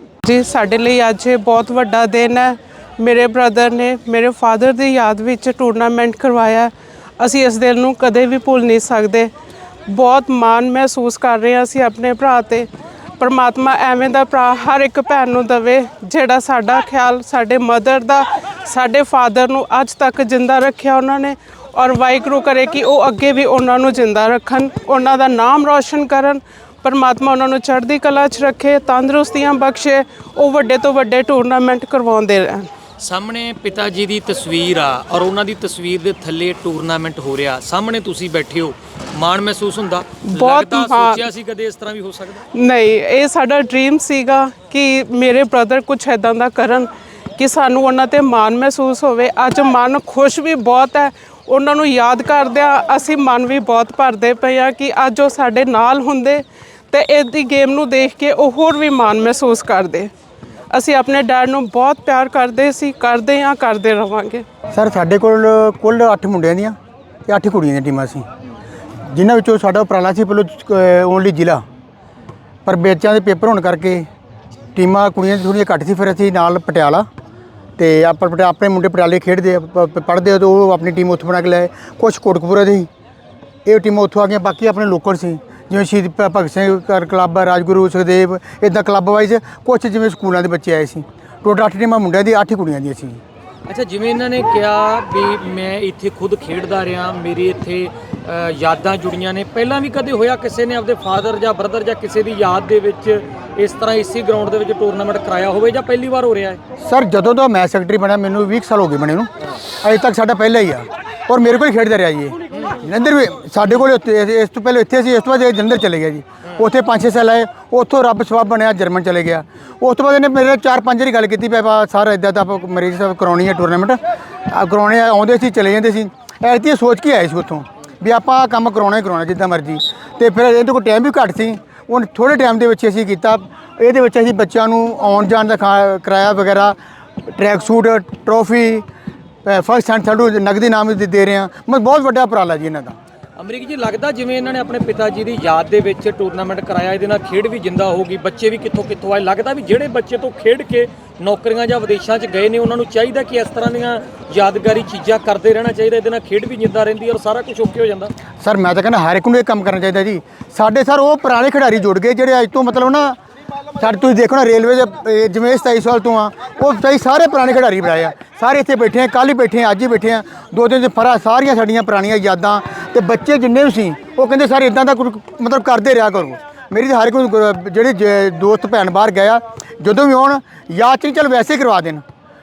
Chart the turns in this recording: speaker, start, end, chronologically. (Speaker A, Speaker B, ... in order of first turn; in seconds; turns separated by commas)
Speaker A: 0.2-9.3, Speaker A: 9.9-32.7, Speaker B: 33.0-42.4, Speaker A: 40.3-41.2, Speaker A: 42.5-60.1, Speaker A: 60.7-64.5, Speaker C: 64.7-66.8, Speaker C: 67.3-68.3, Speaker C: 69.1-71.6, Speaker C: 72.7-74.1, Speaker C: 74.8-77.1, Speaker C: 77.8-82.9, Speaker C: 83.7-93.2, Speaker B: 93.7-106.6, Speaker C: 106.8-109.3, Speaker C: 109.8-136.8, Speaker B: 112.5-112.8, Speaker C: 137.3-138.8, Speaker C: 139.4-143.0, Speaker B: 143.4-158.1, Speaker C: 158.4-163.2, Speaker C: 163.8-182.0